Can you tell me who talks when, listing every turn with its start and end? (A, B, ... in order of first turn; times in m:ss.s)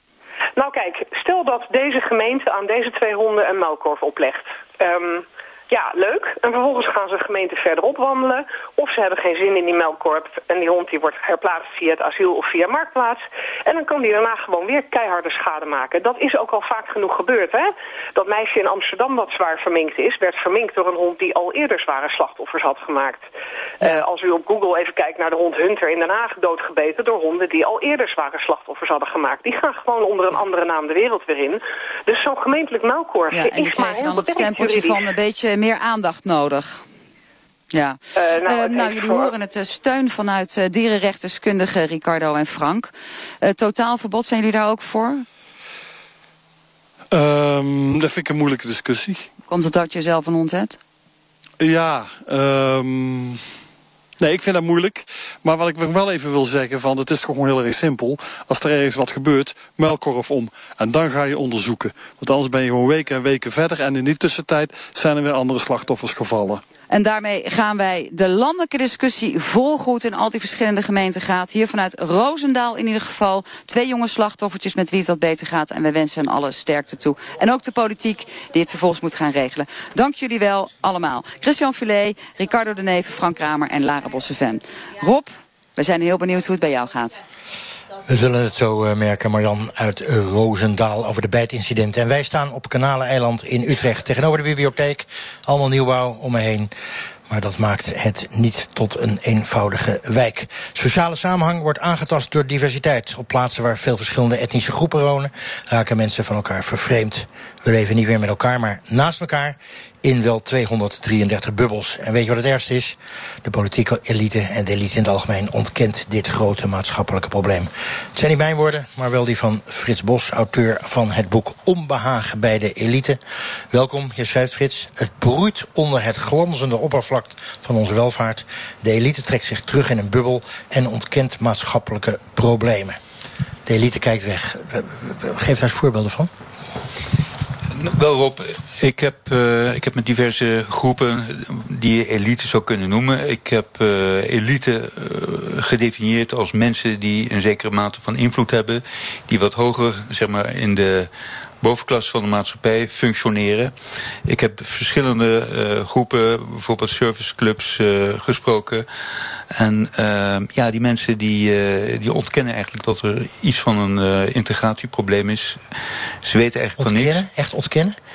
0:00.6-0:23.2 A
0:23.8-0:35.1 A
0:33.3-0:36.8 B
0:37.7-0:42.9 B
0:38.2-0:39.3 A
0:43.4-0:45.2 B
0:47.1-0:49.3 C
0:49.5-0:50.8 B
0:51.6-0:53.4 C
0:54.2-1:06.6 C
1:06.9-1:27.2 B
1:28.0-1:36.7 D
1:37.3-2:03.2 D
2:03.7-2:13.0 D
2:13.6-2:16.3 D
2:17.7-2:31.1 E
2:31.6-2:33.7 E
2:34.2-2:38.8 E
2:39.5-2:45.6 E
2:46.2-2:47.2 E
2:46.8-2:48.0 D